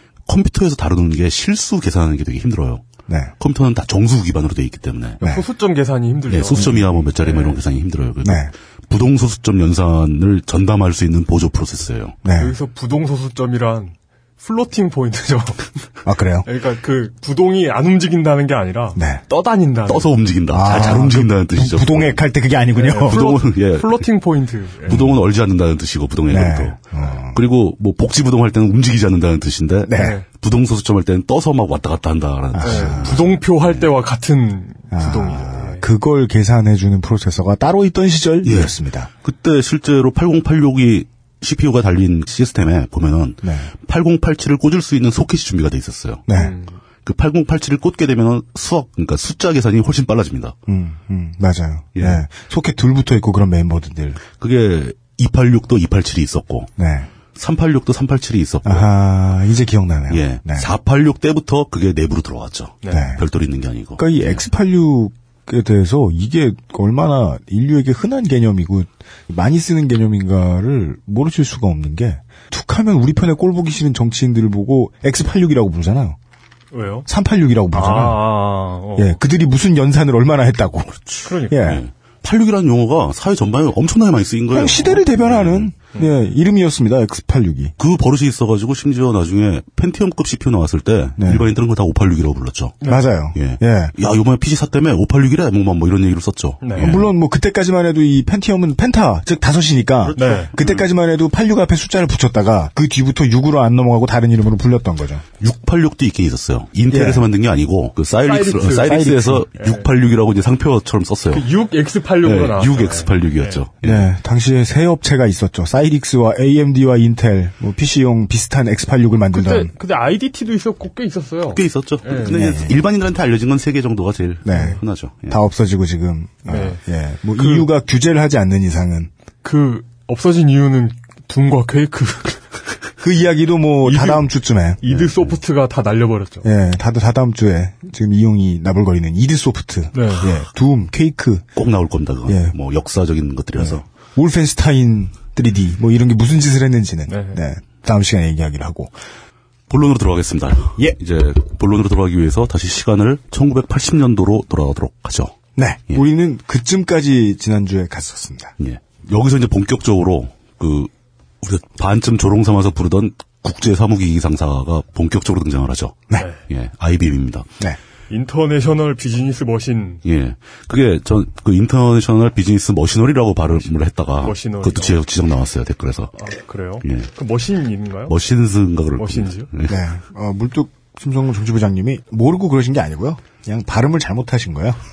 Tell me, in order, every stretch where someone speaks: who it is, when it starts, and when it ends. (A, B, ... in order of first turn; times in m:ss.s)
0:00.3-0:02.8 A
0:03.1-0:03.3 B
0:03.4-0:05.2 A
0:05.2-0:07.6 C
0:06.3-0:12.2 A
0:08.2-0:08.5 B
0:12.2-0:12.6 B
0:12.4-0:15.8 C
0:16.0-0:16.5 B
0:16.4-0:20.1 C
0:19.0-0:19.2 B
0:19.9-0:22.2 A
0:20.5-0:23.2 B
0:22.8-0:25.1 C
0:23.1-0:24.1 A
0:24.9-0:33.8 A
0:26.3-0:27.4 B
0:29.9-0:30.2 B
0:30.0-0:30.2 C
0:32.5-0:33.2 B
0:32.6-0:35.9 C
0:34.9-0:39.1 B
0:38.4-0:46.2 A
0:43.4-0:43.7 B
0:46.3-0:46.6 B
0:46.3-0:46.8 C
0:47.0-0:50.6 A
0:50.7-0:54.2 B
0:52.0-0:52.2 A
0:54.4-0:56.7 A
0:56.8-0:57.1 B
0:57.4-0:58.9 A
0:58.6-1:00.7 B
1:00.1-1:04.1 A
1:02.8-1:03.1 C
1:02.9-1:03.2 B
1:04.0-1:16.2 B
1:16.7-1:17.1 C
1:17.1-1:18.3 B
1:17.7-1:19.2 C
1:19.0-1:21.8 B
1:21.2-1:21.7 C
1:21.5-1:25.7 A
1:24.5-1:27.7 B
1:27.8-1:32.8 A
1:31.2-1:31.5 B
1:32.8-1:34.0 B
1:33.4-1:37.1 A
1:36.6-1:36.9 C
1:36.8-1:45.2 B
1:40.1-1:40.9 C
1:40.2-1:40.5 A
1:45.4-1:51.5 A
1:46.9-1:47.3 B
1:48.2-1:49.9 C
1:48.9-1:49.4 B
1:51.3-1:53.6 C
1:52.2-1:54.1 A
1:53.8-1:59.7 B
1:59.3-2:02.4 C
2:01.5-2:05.4 A
2:02.3-2:02.8 B
2:04.4-2:09.1 B
2:06.5-2:06.8 C
2:07.4-2:07.7 C
2:09.4-2:12.4 C
2:13.0-2:15.3 B
2:13.8-2:14.2 C
2:14.8-2:16.5 C
2:16.4-2:21.5 B
2:19.9-2:20.3 C
2:21.6-2:23.8 A
2:22.3-2:22.6 B
2:23.6-2:28.9 B
2:27.1-2:27.4 C
2:29.7-2:35.3 A
2:35.6-2:38.5 B
2:38.6-2:40.9 A
2:41.4-2:47.5 A
2:48.1-2:50.0 C
2:50.0-2:56.1 A
2:54.2-2:55.0 C
2:56.2-2:58.1 C
2:56.8-2:57.1 A
2:58.1-2:59.8 A
2:59.0-2:59.5 C
2:59.7-3:04.8 B